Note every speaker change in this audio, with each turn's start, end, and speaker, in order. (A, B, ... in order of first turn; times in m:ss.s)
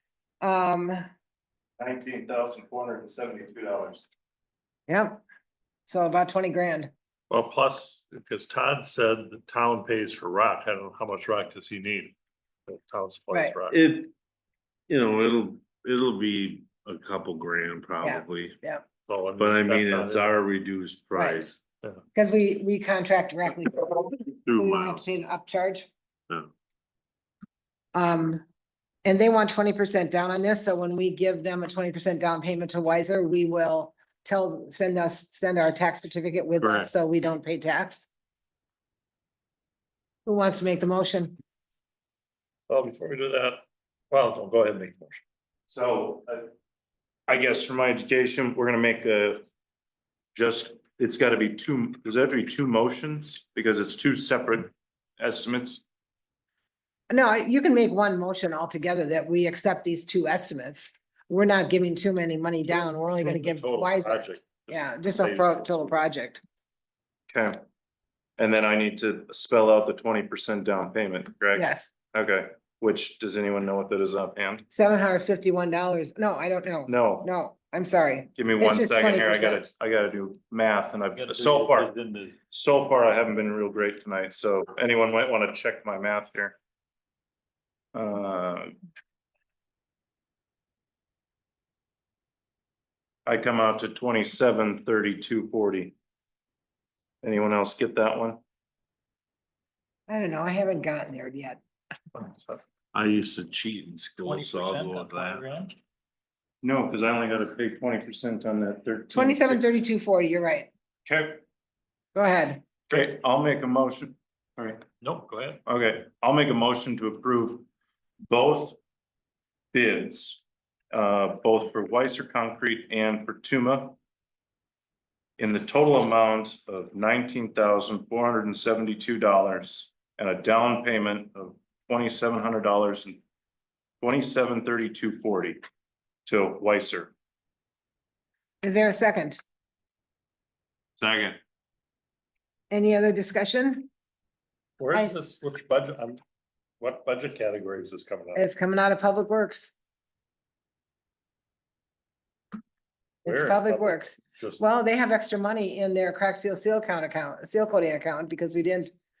0:00.4-0:01.0 A
0:01.8-0:04.0 B
0:04.9-0:05.2 A
0:05.9-0:06.9 A
0:07.3-0:12.1 C
0:12.7-0:13.8 C
0:13.7-0:14.1 D
0:14.9-0:18.6 D
0:18.0-0:18.8 A
0:19.1-0:20.4 C
0:19.4-0:21.6 D
0:21.1-0:21.5 A
0:22.1-0:25.9 A
0:24.4-0:25.1 D
0:27.9-0:28.4 A
0:29.0-0:38.1 A
0:36.6-0:36.9 D
0:40.2-0:41.4 A
0:42.7-0:45.2 C
0:45.7-0:46.5 B
0:47.3-0:49.4 B
0:50.3-0:55.8 B
0:57.1-1:06.4 A
1:02.9-1:05.9 C
1:07.3-1:07.6 B
1:08.4-1:14.6 B
1:11.5-1:11.9 A
1:14.7-1:19.7 A
1:16.8-1:17.3 B
1:18.4-1:21.9 B
1:21.2-1:22.4 C
1:22.5-1:26.6 B
1:27.9-1:28.7 B
1:33.2-1:35.9 B
1:37.2-1:38.4 B
1:40.1-1:41.6 A
1:42.1-1:42.6 C
1:42.9-1:45.6 D
1:44.2-1:45.7 C
1:46.6-1:49.7 B
1:49.1-1:50.7 A
1:51.0-1:51.4 B
1:52.1-1:52.6 A
1:52.9-1:54.8 B
1:55.0-1:55.6 C
1:55.6-1:57.6 B
1:58.3-1:58.8 B
1:59.7-2:04.0 B
2:05.4-2:13.2 B
2:14.0-2:15.6 B
2:16.2-2:17.1 B
2:18.6-2:19.4 A
2:22.7-2:23.9 A
2:24.8-2:26.2 C
2:26.8-2:28.4 C
2:28.3-2:29.7 A
2:33.2-2:38.9 A
2:33.2-2:34.6 C